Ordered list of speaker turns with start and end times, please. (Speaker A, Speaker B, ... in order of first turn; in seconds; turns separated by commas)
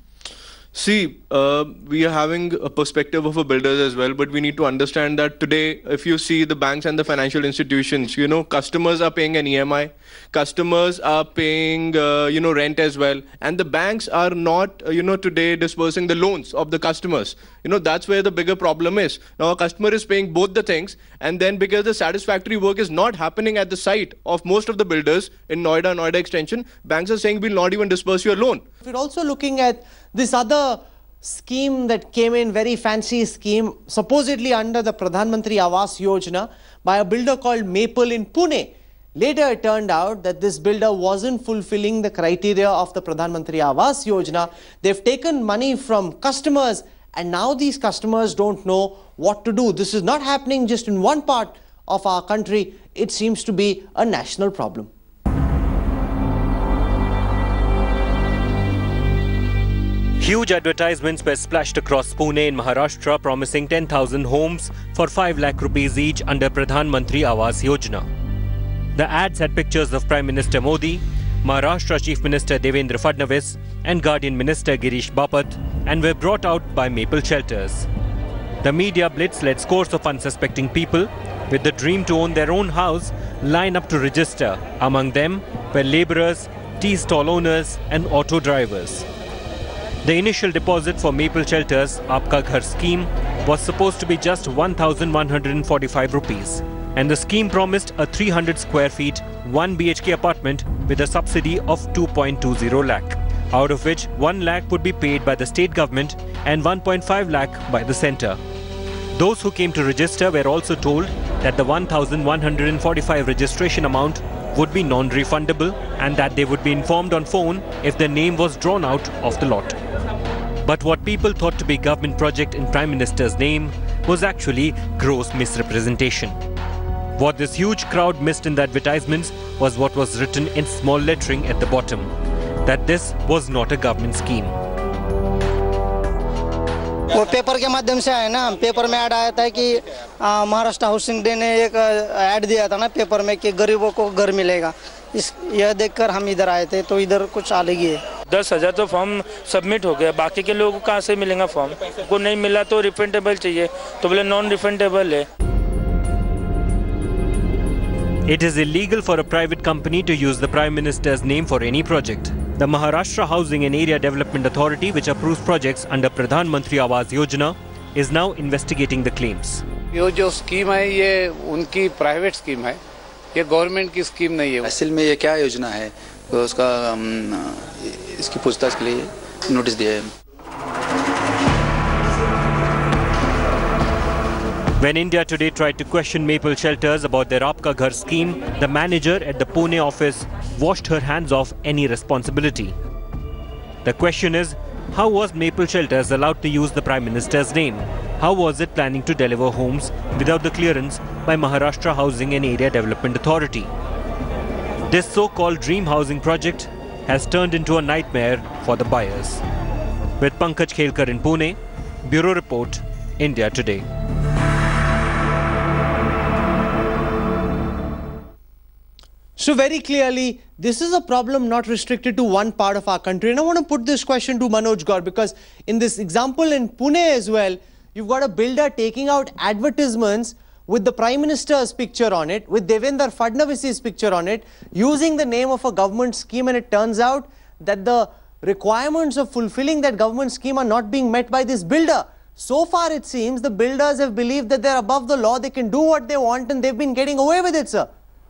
Speaker A: 0.7-28.6, Speaker B: 28.8-54.9, Speaker C: 60.2-68.0, Speaker C: 68.9-77.9, Speaker C: 78.6-89.1, Speaker C: 90.0-108.4, Speaker C: 109.1-119.8, Speaker C: 120.6-126.3, Speaker C: 127.2-132.1, Speaker C: 132.6-134.6, Speaker D: 137.1-148.0, Speaker E: 148.3-155.2, Speaker C: 158.2-169.6, Speaker F: 169.9-172.8, Speaker F: 173.3-174.6, Speaker G: 174.6-180.1, Speaker C: 184.8-192.7, Speaker C: 193.8-203.7, Speaker C: 204.9-209.4, Speaker C: 210.2-213.8, Speaker B: 219.4-247.9